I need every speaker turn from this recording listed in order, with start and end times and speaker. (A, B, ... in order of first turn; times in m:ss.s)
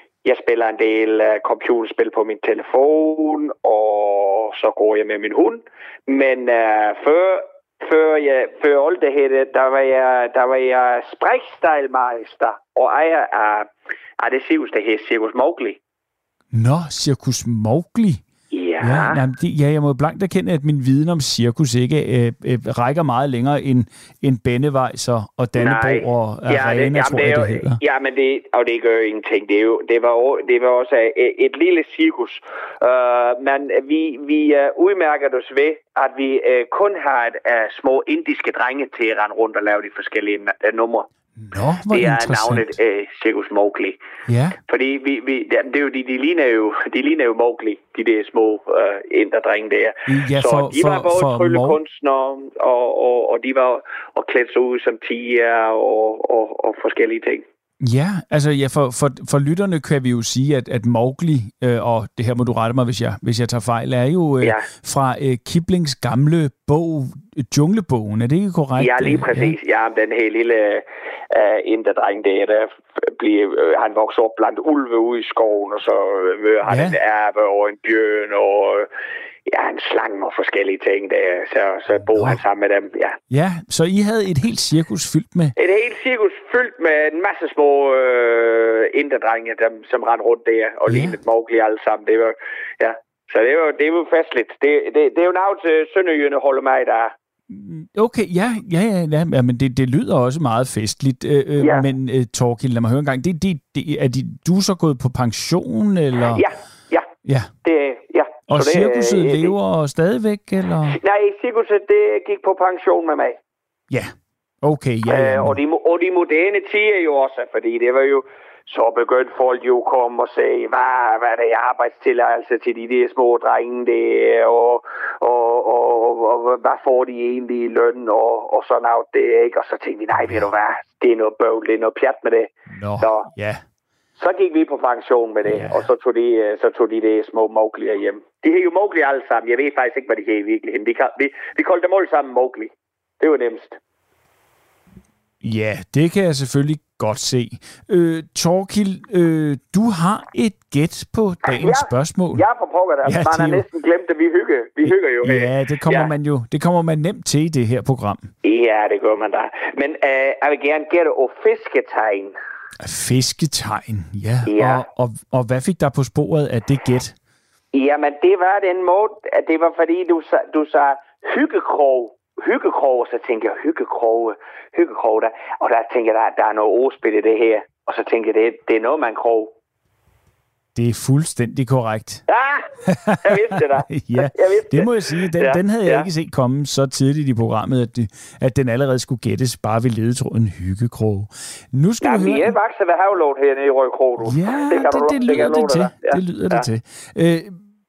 0:00.2-0:15.8 A
0:16.5-0:18.2 B
0:18.5-0:19.2 A
0:18.8-0:27.8 B
0:25.6-0:41.1 A
0:41.4-0:42.7 B
0:41.9-0:44.0 A
0:44.3-0:44.6 B
0:44.7-0:57.4 A
0:50.1-0:51.8 B
0:57.8-1:09.6 B
1:08.8-1:18.9 A
1:16.7-1:17.0 B
1:19.5-1:23.2 A
1:23.3-1:25.6 B
1:25.6-1:37.1 A
1:30.9-1:31.2 B
1:37.5-1:46.4 B
1:41.6-1:41.9 A
1:46.3-1:47.1 A
1:47.2-1:47.5 B
1:47.6-1:49.6 A
1:48.5-1:51.0 B
1:50.9-1:53.4 A
1:53.9-1:55.6 B
1:55.1-2:13.3 A
2:10.2-2:10.5 B
2:12.7-2:13.6 B
2:14.2-2:23.8 A
2:15.4-2:15.9 B
2:25.4-2:32.4 B
2:31.5-2:36.1 A
2:33.0-2:33.6 B
2:34.8-2:38.3 B
2:38.4-2:42.4 A
2:42.8-2:47.2 B
2:44.4-2:44.9 A
2:47.7-2:59.5 A
3:00.8-3:02.2 B
3:02.3-3:02.7 A
3:02.9-3:12.6 B
3:03.2-3:06.1 A
3:12.0-3:16.7 A
3:14.2-3:17.6 B